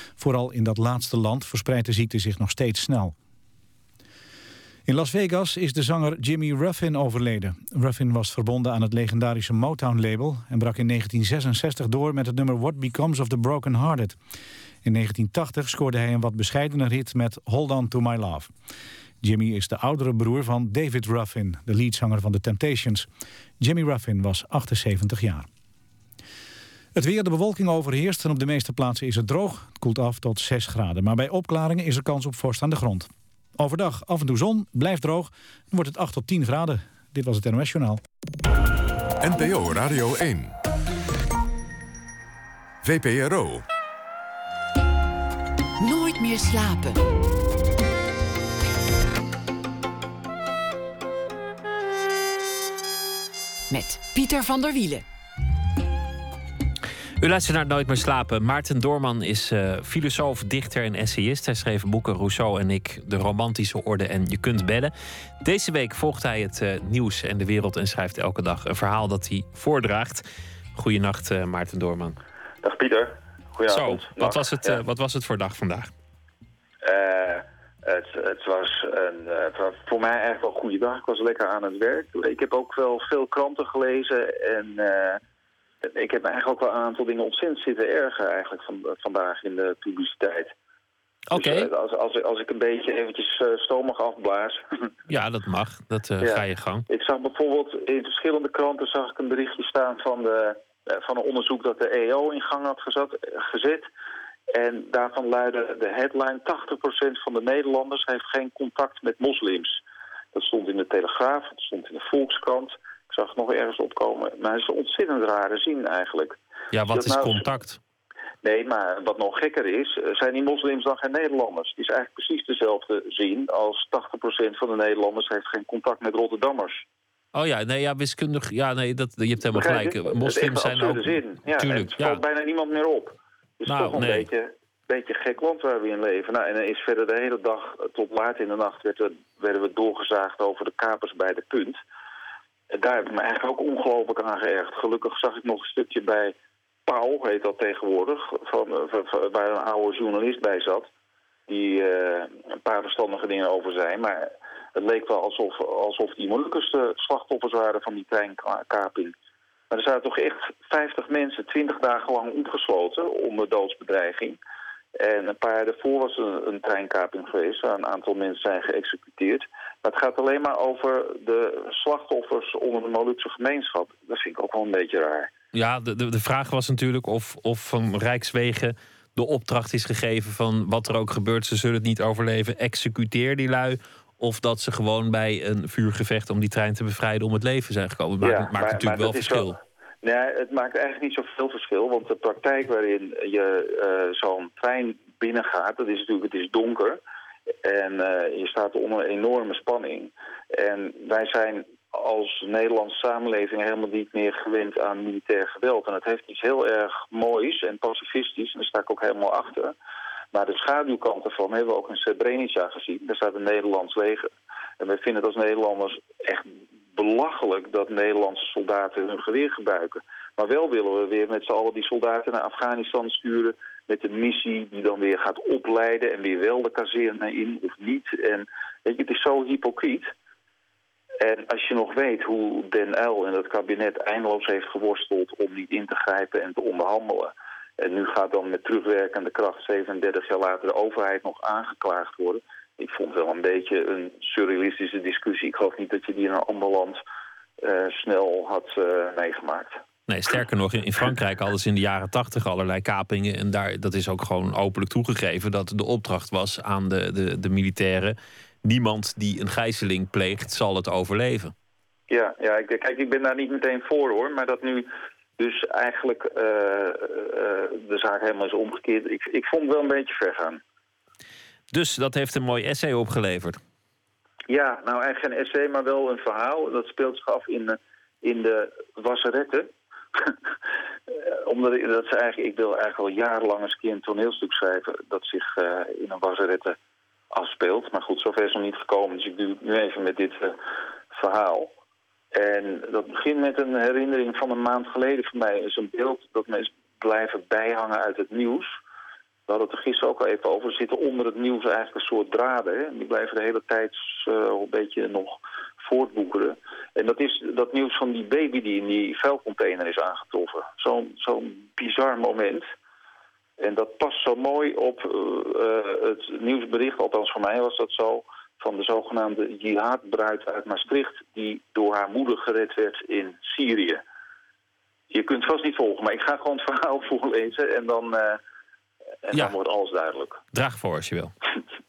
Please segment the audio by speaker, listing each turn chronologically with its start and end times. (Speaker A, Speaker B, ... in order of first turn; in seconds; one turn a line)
Speaker A: 0.2-3.1
Speaker A: 4.9-14.2
Speaker A: 14.8-18.5
Speaker A: 19.2-23.1
Speaker A: 23.6-25.5
Speaker A: 26.9-38.0
Speaker B: 39.2-40.5
Speaker B: 42.8-43.6
Speaker C: 45.8-47.1
Speaker C: 53.7-55.0
Speaker D: 57.2-72.2
Speaker E: 72.6-74.8
Speaker D: 73.7-75.9
Speaker E: 76.8-85.2
Speaker E: 85.8-90.5
Speaker D: 91.3-91.7
Speaker E: 91.3-94.6
Speaker D: 95.1-96.8
Speaker E: 96.2-103.9
Speaker E: 104.5-109.8
Speaker E: 110.3-116.4
Speaker D: 116.7-117.8
Speaker E: 116.9-117.5
Speaker E: 118.4-126.8
Speaker D: 127.3-132.2
Speaker E: 129.5-141.8
Speaker D: 133.7-134.2
Speaker E: 142.7-150.9
Speaker E: 151.5-159.1
Speaker E: 159.7-164.4
Speaker E: 165.0-175.3
Speaker D: 175.5-189.6
Speaker E: 188.2-197.0
Speaker E: 197.6-209.7
Speaker E: 210.3-214.3
Speaker E: 214.8-230.1
Speaker E: 231.2-247.0
Speaker E: 247.6-249.8
Speaker D: 250.1-261.5
Speaker E: 262.1-270.6
Speaker D: 271.7-273.6
Speaker E: 274.5-280.3
Speaker E: 281.1-286.8
Speaker E: 287.3-290.6
Speaker E: 291.1-291.7
Speaker E: 292.3-298.7
Speaker E: 299.5-312.7
Speaker E: 313.6-324.0
Speaker E: 325.1-328.4
Speaker E: 329.3-330.4
Speaker D: 330.5-331.3